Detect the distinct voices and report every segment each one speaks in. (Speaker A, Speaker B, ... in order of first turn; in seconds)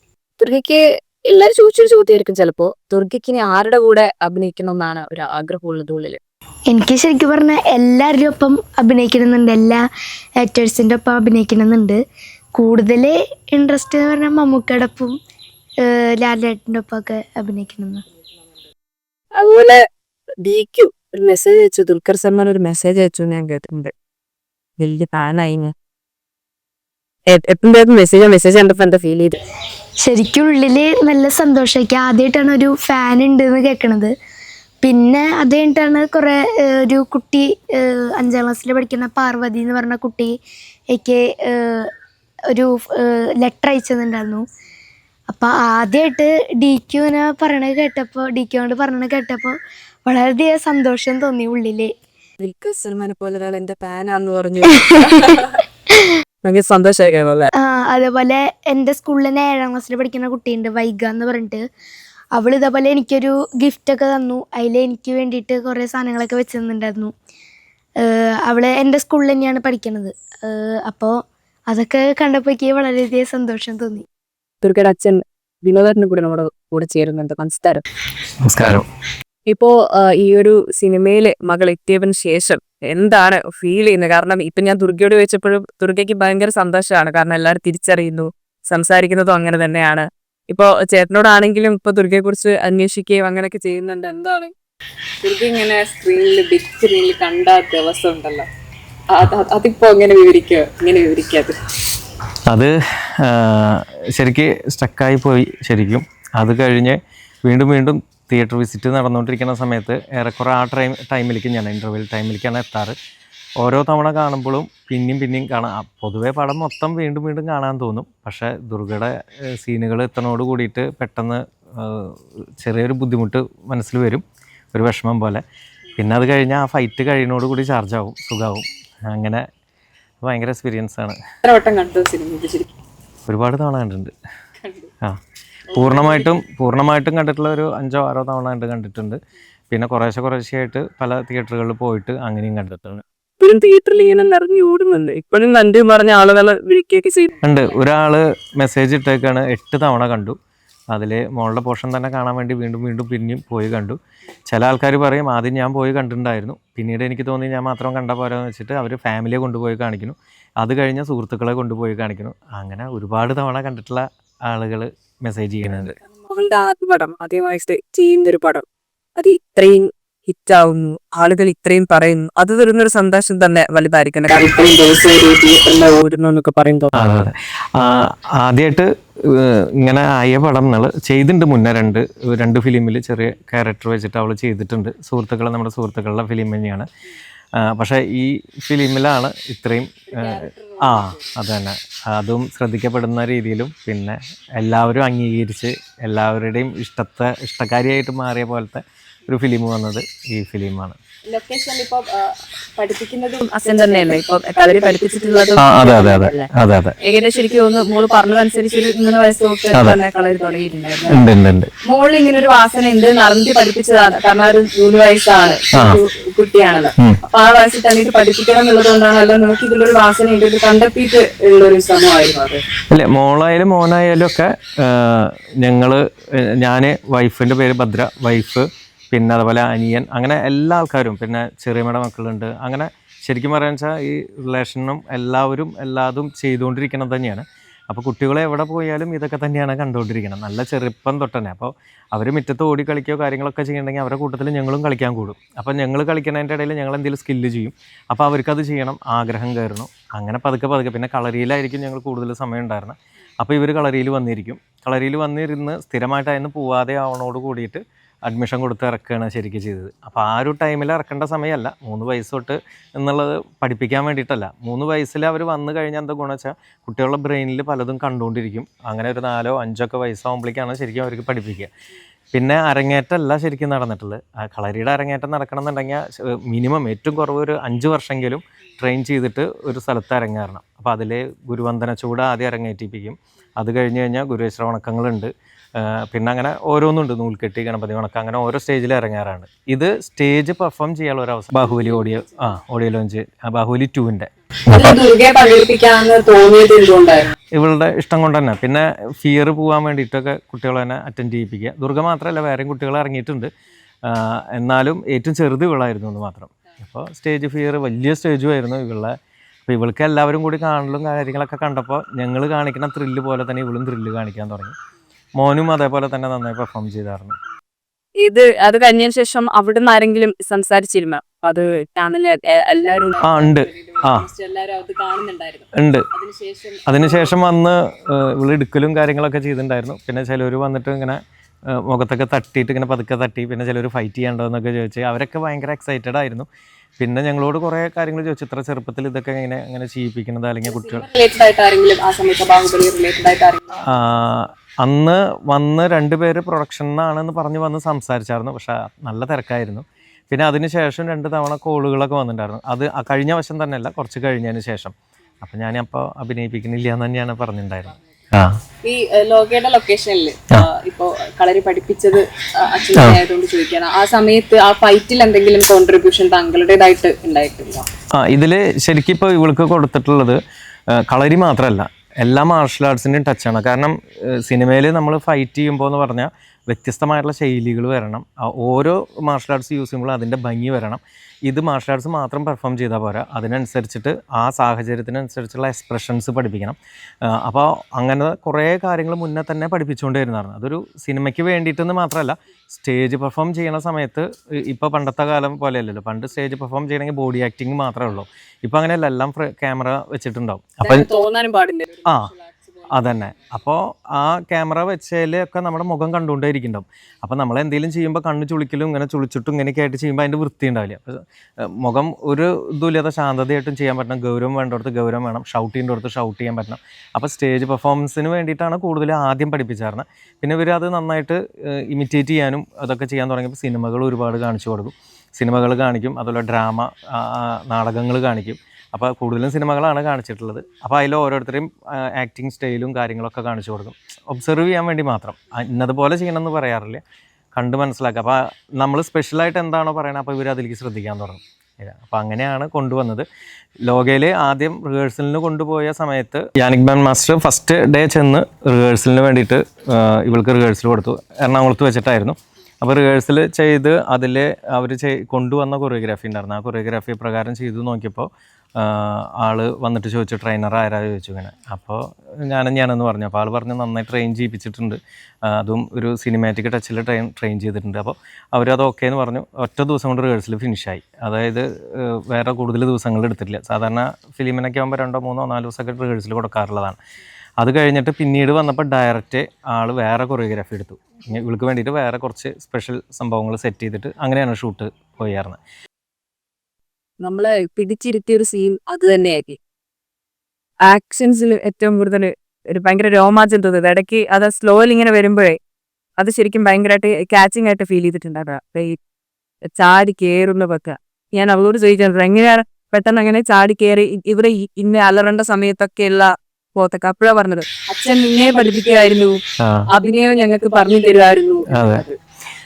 Speaker A: 0.4-6.2, 19.3-19.8, 20.4-23.9, 24.8-25.7, 27.3-29.4, 52.4-55.5, 56.4-57.5, 74.6-77.8, 79.5-94.5, 95.2-98.4, 99.4-101.5, 131.4-132.7, 143.4-147.4, 166.2-168.6, 169.2-177.1, 201.5-201.8, 203.4-206.5, 207.0-211.2, 211.8-222.6, 294.7-297.3, 318.2-323.4, 324.1-325.6, 326.2-326.8, 340.9-343.7, 358.9-360.3, 363.1-364.5, 365.5-366.0, 367.5-367.8, 400.8-402.1, 487.2-489.6, 490.9-495.6, 496.2-499.0, 499.7-509.4, 509.9-512.1
Speaker B: 6.7-9.8, 10.4-12.0, 12.6-15.2, 15.8-18.0, 30.0-34.1, 34.8-40.3, 40.9-41.9, 42.5-44.4, 45.3-51.9, 57.6-61.6, 62.3-67.1, 68.0-71.2, 71.7-74.0
Speaker C: 78.4-78.9, 102.5-112.9, 113.6-125.4, 126.0-129.5, 130.2-131.2, 133.3-134.1, 135.7-139.2, 139.7-143.0, 147.4-150.4, 150.9-165.9, 176.9-186.9, 187.6-201.0, 205.6-206.9, 209.7-210.0, 211.1-211.7, 215.7-216.0, 222.9-271.7, 272.3-294.9, 297.5-303.5, 304.1-309.1, 309.7-314.7, 315.4-317.4, 323.2-324.3, 325.7-326.1, 326.9-336.5, 337.0-341.1, 343.8-358.6, 362.9-363.2, 368.1-370.4, 370.9-401.1, 402.9-437.0, 437.5-443.2, 443.8-477.0, 477.6-485.6, 509.6-509.9, 511.7-512.0